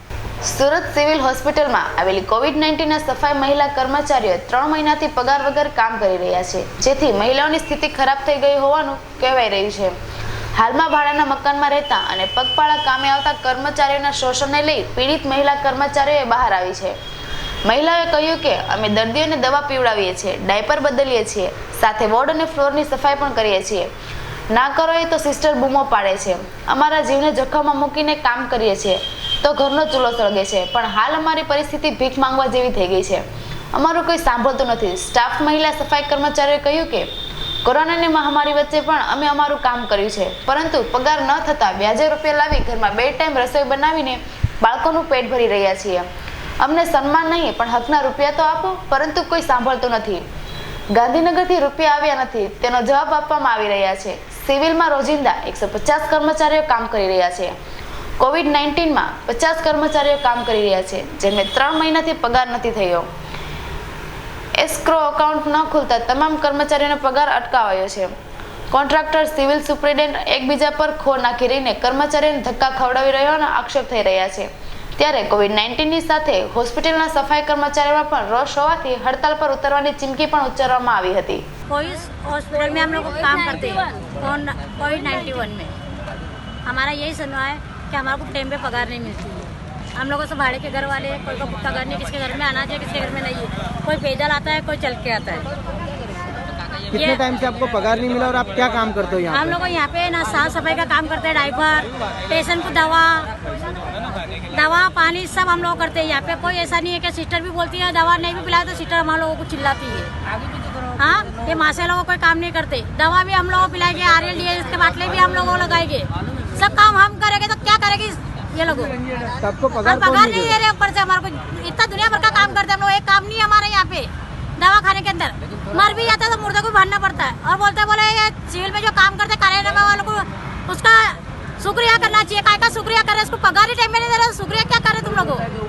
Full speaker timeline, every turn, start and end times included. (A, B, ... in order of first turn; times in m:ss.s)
0:00.4-0:10.0 A
0:10.6-0:17.0 A
0:17.6-0:23.9 A
0:24.5-0:37.1 A
0:37.6-0:46.1 A
0:46.6-0:50.2 A
0:50.9-0:57.5 A
0:58.2-1:03.1 A
1:04.6-1:08.1 A
1:08.7-1:21.4 A
1:21.7-1:25.7 B
1:26.6-1:35.5 B
1:36.9-1:37.2 B
1:36.9-1:39.5 C
1:39.3-1:43.3 B
1:44.5-1:50.1 B
1:50.9-1:59.0 B
1:59.4-2:00.6 C
1:59.8-2:15.4 B